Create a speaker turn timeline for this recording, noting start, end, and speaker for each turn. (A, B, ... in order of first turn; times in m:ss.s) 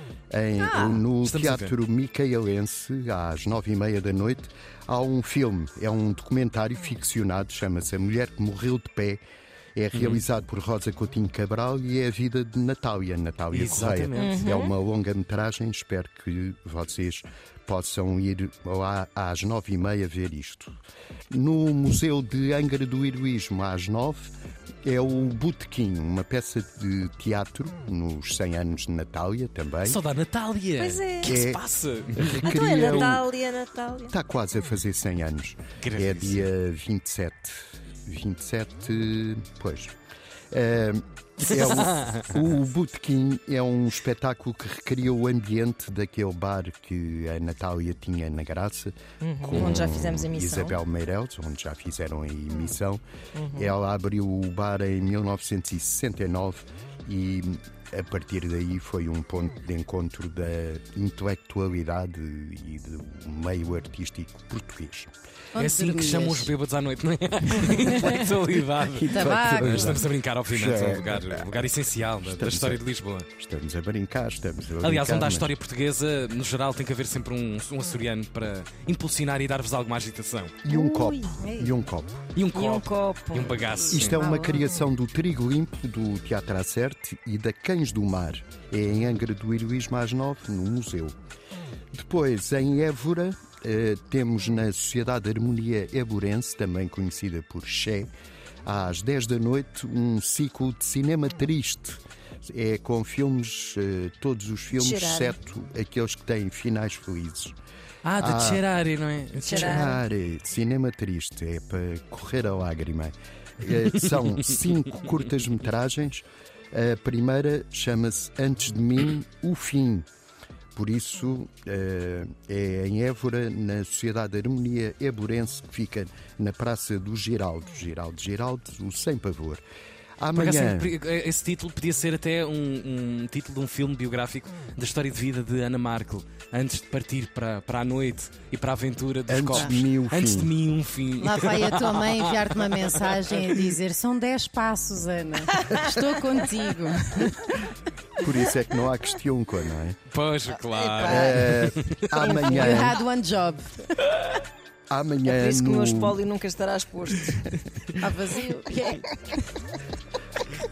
0:00.3-0:09.2 A
0:00.6-0:01.0 B
0:01.1-0:01.8 C
0:09.8-0:20.8 A
0:09.9-0:10.2 C
0:13.5-0:14.6 C
0:14.2-0:14.7 D
0:21.3-0:30.0 A
0:29.8-0:32.5 C
0:30.8-0:31.4 D
0:31.2-0:31.6 A
0:32.2-0:33.3 A
0:32.4-0:34.2 D
0:34.1-0:39.9 A
0:35.8-0:36.5 C
0:40.5-1:05.1 A
0:41.5-0:42.4 C
0:49.2-0:50.8 D
0:49.5-0:49.8 C
0:53.4-0:53.7 D
1:05.5-1:06.5 B
1:05.6-1:13.3 C
1:07.7-1:08.1 B
1:08.9-1:11.5 A
1:09.0-1:10.0 B
1:12.2-1:12.8 A
1:13.4-1:15.5 A
1:14.8-1:20.6 C
1:20.6-1:22.2 A
1:20.7-1:21.7 D
1:22.4-1:24.2 C
1:22.5-1:24.1 D
1:23.9-1:31.2 A
1:24.0-1:24.7 B
1:31.9-1:38.1 A
1:38.6-1:47.6 A
1:44.7-1:45.4 D
1:48.0-1:50.0 C
1:48.2-1:48.6 A
1:49.4-1:50.0 D
1:49.5-2:00.1 A
1:54.0-1:54.4 C
2:00.8-2:09.6 A
2:10.2-2:10.9 A
2:10.4-2:23.7 C
2:19.3-2:20.5 A
2:21.2-2:27.6 B
2:25.5-2:26.1 D
2:28.2-2:30.0 A
2:30.1-2:32.2 C
2:30.5-2:31.6 D
2:31.0-2:33.0 A
2:32.1-2:33.0 D
2:32.5-2:33.8 B
2:34.9-2:36.2 A
2:35.2-2:37.6 D
2:38.0-2:39.2 B